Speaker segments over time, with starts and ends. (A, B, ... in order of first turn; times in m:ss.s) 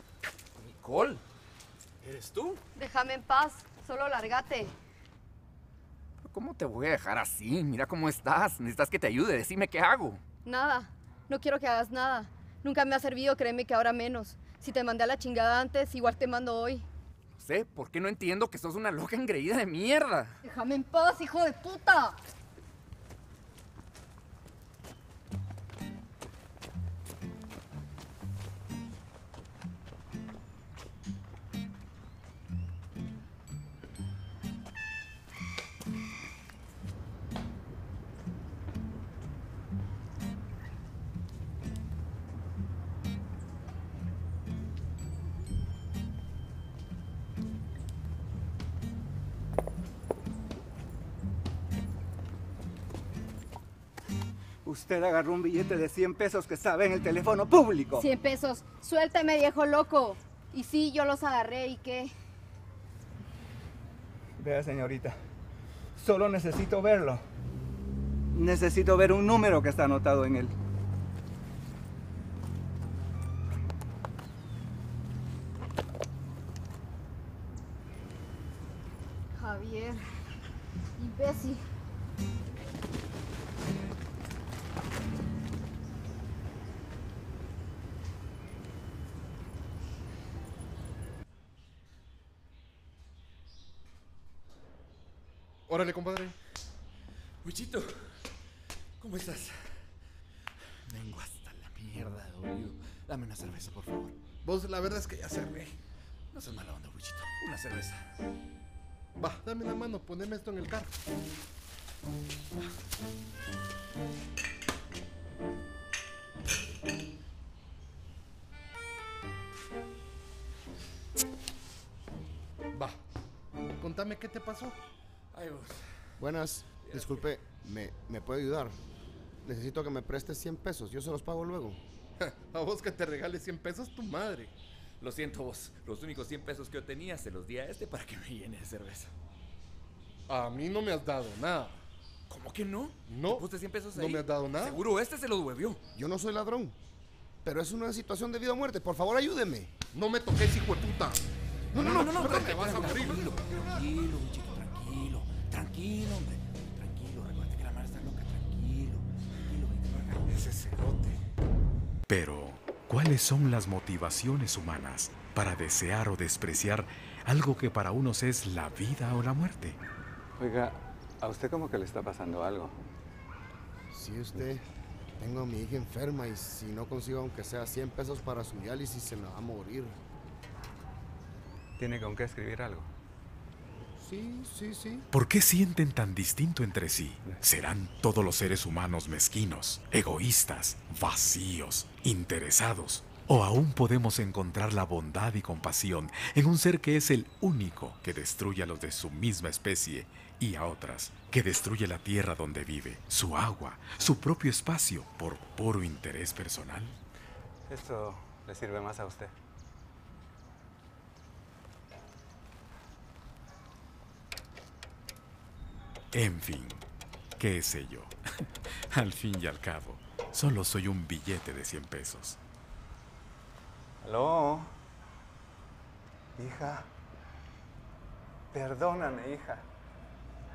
0:00.6-0:01.2 A
0:02.0-0:02.6 A
0:02.8-0:04.8 B
0:06.2-0:10.2 A
0:10.4-0:16.9 B
0:17.4-0:20.4 A
0:20.5-0:22.1 B
0:54.6-0:58.0 C
0:58.0-1:02.1 B
1:04.4-1:05.2 C
1:06.0-1:07.2 C
1:08.3-1:10.5 C
1:19.5-1:19.9 B
1:21.0-1:21.5 B
1:35.7-1:36.3 D
1:37.4-1:37.9 A
1:39.0-1:39.9 A
1:40.9-1:44.2 A
1:44.4-1:45.8 D
1:46.3-1:48.1 A
1:49.2-1:50.9 D
2:03.8-2:04.8 D
2:05.3-2:05.8 A
2:06.2-2:08.8 E
2:06.8-2:07.3 A
2:09.4-2:11.8 E
2:12.2-2:14.5 D
2:15.0-2:19.1 A
2:20.3-2:21.8 D
2:22.3-2:25.8 A
2:23.1-2:24.8 D
2:26.0-2:26.8 E
2:27.4-2:29.7 E
2:29.9-2:31.2 D
2:31.7-2:41.0 A
2:31.7-2:32.3 E
2:31.8-2:33.8 D
2:42.1-2:49.8 F
2:50.4-2:52.8 G
2:53.9-2:54.6 E
2:55.2-3:00.0 E
3:01.8-3:02.9 G
3:04.0-3:05.0 E
3:05.1-3:27.0 F
3:27.7-3:29.4 G
3:36.1-3:36.8 F
3:37.4-3:42.4 F
3:44.0-3:44.8 G
3:46.4-3:46.9 G
3:48.5-3:49.7 G